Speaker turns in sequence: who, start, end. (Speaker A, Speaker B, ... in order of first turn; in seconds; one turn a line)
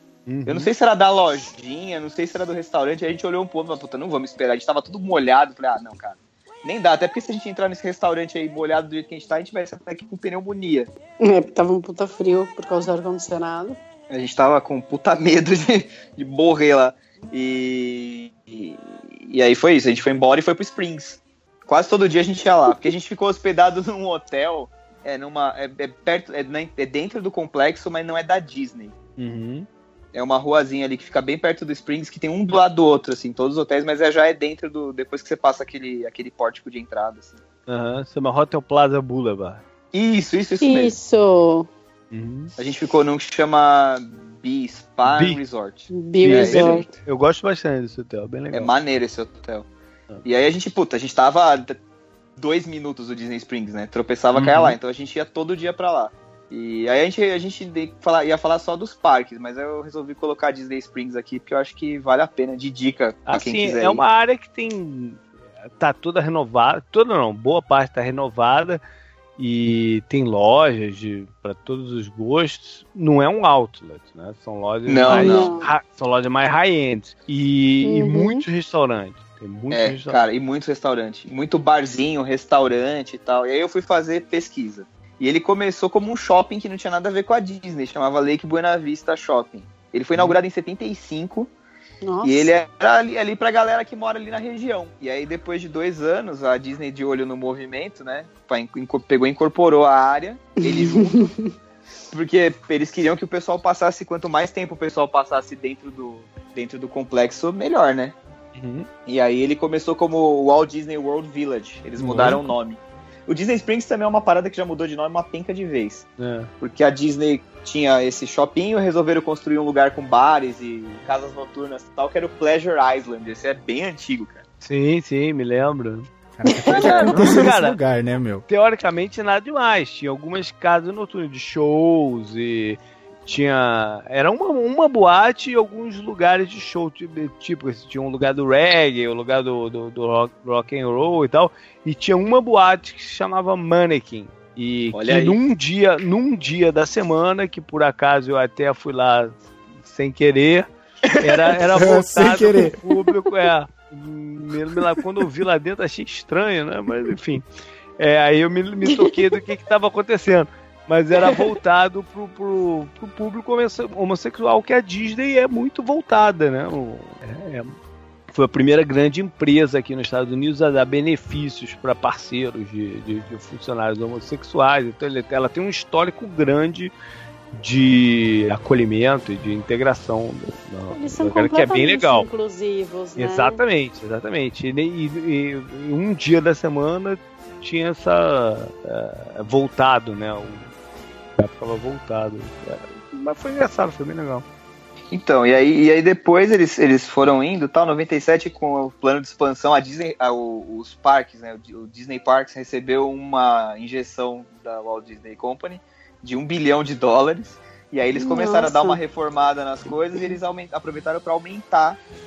Speaker A: 0.3-0.7
Speaker B: 0.5-10.9
Speaker C: 11.2-13.8
Speaker B: 14.1-28.9
Speaker A: 29.2-29.7
Speaker B: 30.1-37.4
Speaker A: 37.7-39.6
Speaker B: 39.9-40.9
Speaker C: 40.6-41.7
Speaker A: 42.1-42.5
Speaker B: 42.6-46.9
Speaker A: 45.1-45.4
Speaker C: 45.9-46.9
Speaker A: 46.2-48.7
Speaker B: 48.5-49.7
Speaker B: 50.2-51.8
Speaker B: 52.4-64.0
Speaker A: 54.3-54.8
Speaker A: 63.3-65.2
Speaker A: 65.8-68.8
Speaker A: 69.4-80.2
Speaker B: 74.9-75.5
Speaker C: 75.0-75.7
Speaker C: 77.8-78.4
Speaker B: 79.7-91.5
Speaker C: 92.0-92.5
Speaker B: 92.2-101.3
Speaker C: 100.6-101.5
Speaker B: 102.1-108.1
Speaker A: 108.5-108.9
Speaker B: 109.0-116.1
Speaker A: 112.0-112.5
Speaker A: 116.2-116.5
Speaker B: 116.6-124.4
Speaker A: 124.6-126.1
Speaker D: 126.4-128.4
Speaker C: 126.5-127.1
Speaker A: 126.7-127.8
Speaker B: 126.7-127.1
Speaker A: 128.5-157.4
Speaker B: 144.9-145.4
Speaker B: 151.1-151.9
Speaker D: 151.7-152.8
Speaker A: 158.0-167.7
Speaker C: 158.8-159.2
Speaker A: 168.3-176.9
Speaker A: 177.5-182.3
Speaker C: 180.9-183.6
Speaker A: 183.2-190.7
Speaker A: 191.4-194.4
Speaker B: 195.1-212.0
Speaker C: 208.2-209.0